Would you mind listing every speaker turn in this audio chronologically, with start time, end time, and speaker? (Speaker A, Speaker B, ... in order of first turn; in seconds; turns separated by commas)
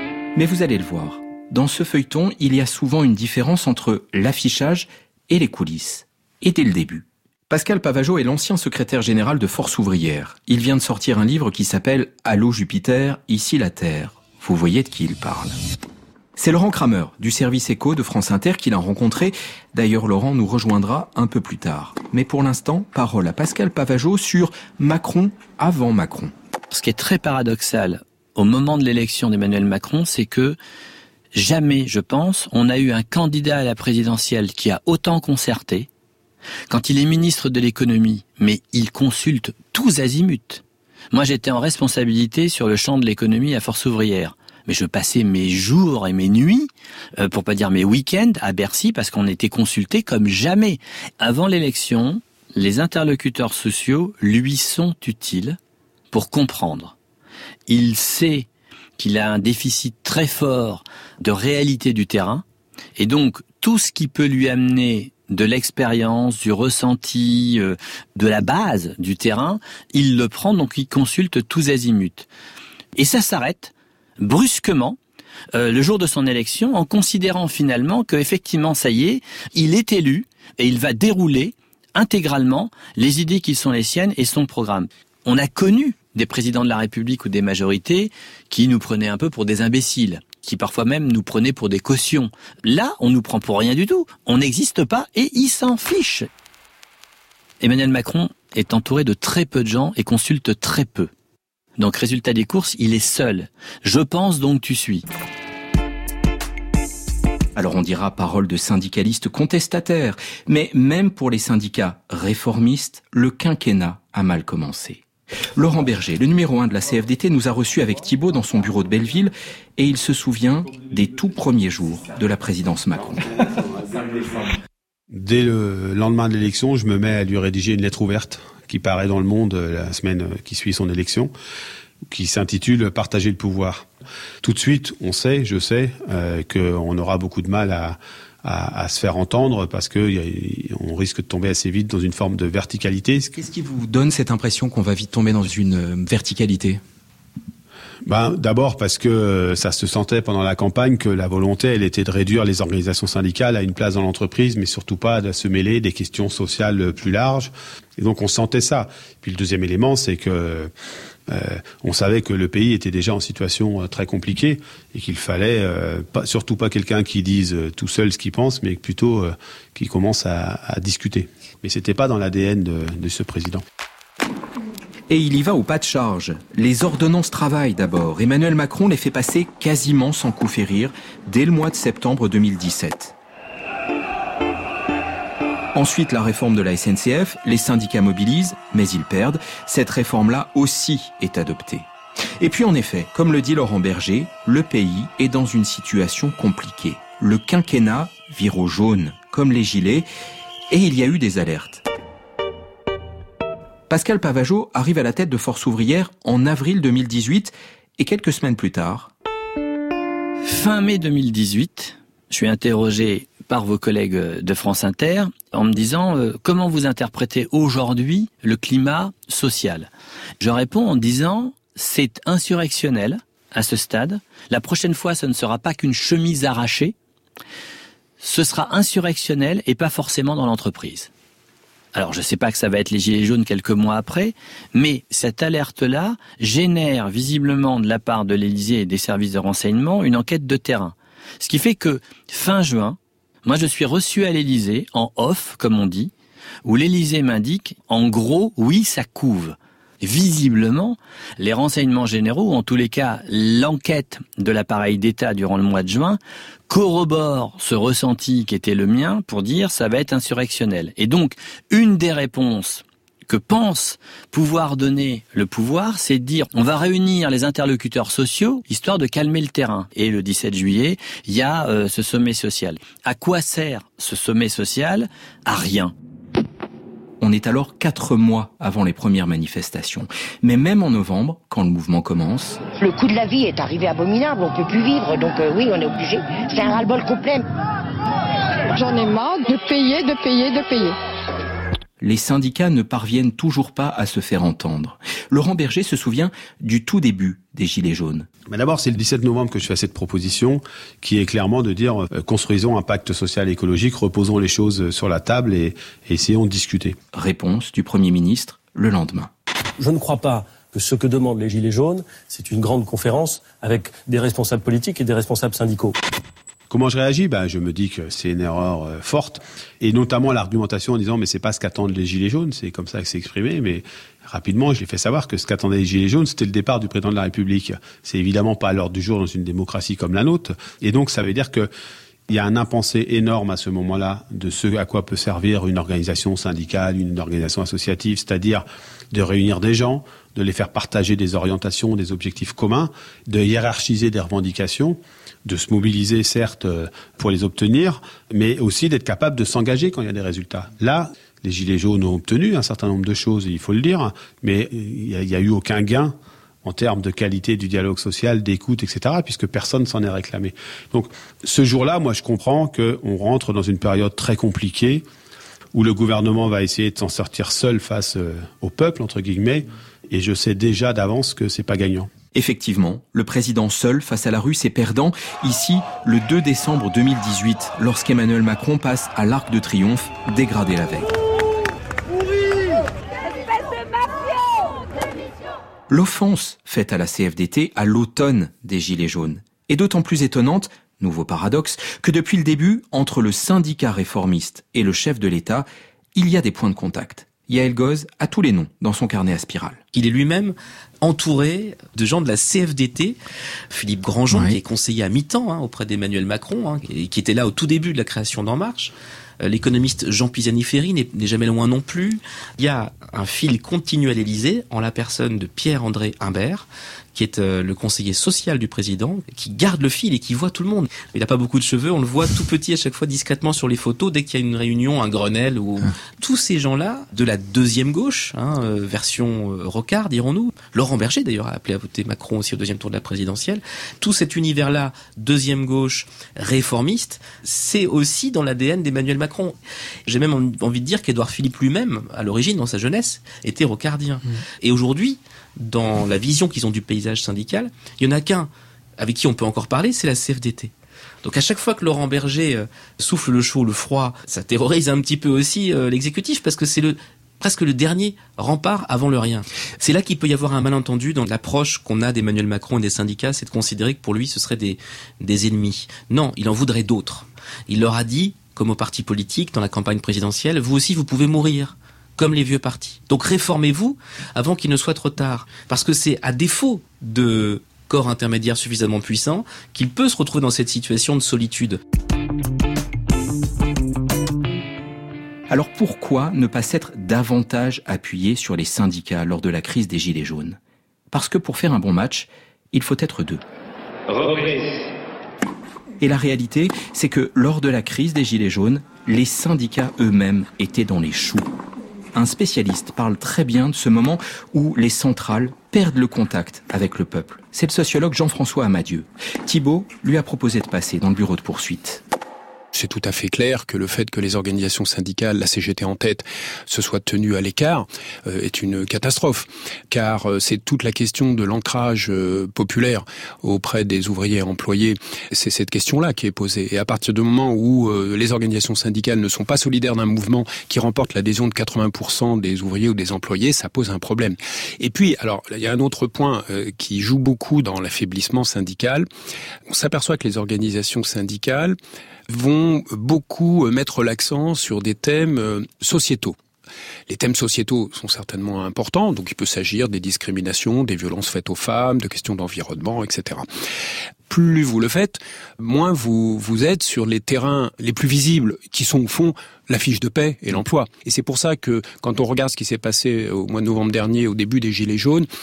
Speaker A: 0.3-15.6, Speaker A: 16.4-26.3, Speaker B: 26.7-30.6, Speaker B: 31.4-35.9, Speaker B: 36.7-55.6, Speaker B: 56.1-56.9, Speaker B: 57.7-58.5, Speaker B: 59.0-62.4, Speaker B: 63.0-72.3, Speaker B: 73.0-75.0, Speaker B: 75.5-96.3, Speaker B: 97.6-101.1, Speaker B: 101.8-105.1, Speaker A: 107.5-115.0, Speaker A: 115.6-123.4, Speaker C: 125.1-131.3, Speaker C: 132.1-133.9, Speaker C: 134.4-143.3, Speaker A: 143.3-146.8, Speaker C: 148.1-160.7, Speaker C: 161.3-173.6, Speaker A: 175.1-183.1, Speaker A: 185.7-200.1, Speaker A: 200.7-201.8, Speaker A: 203.9-209.1, Speaker B: 210.4-226.9, Speaker B: 228.2-231.1, Speaker B: 231.9-246.1, Speaker B: 246.6-275.9, Speaker A: 277.2-282.6, Speaker D: 282.8-287.4, Speaker E: 288.8-291.0, Speaker A: 292.0-298.3, Speaker C: 298.5-307.0, Speaker A: 307.1-309.3, Speaker F: 309.8-315.9, Speaker C: 316.7-331.7, Speaker C: 332.3-365.1, Speaker C: 365.7-372.1, Speaker A: 372.3-381.1, Speaker A: 385.9-399.8, Speaker G: 399.9-403.2, Speaker G: 403.7-439.6, Speaker A: 404.3-404.6, Speaker G: 440.1-450.7, Speaker G: 451.2-481.8, Speaker A: 485.5-490.6, Speaker A: 491.1-493.4, Speaker A: 496.0-501.5, Speaker A: 502.1-512.0, Speaker H: 512.7-539.1, Speaker H: 539.7-541.8, Speaker H: 542.3-546.4, Speaker H: 547.1-553.5, Speaker H: 554.3-565.3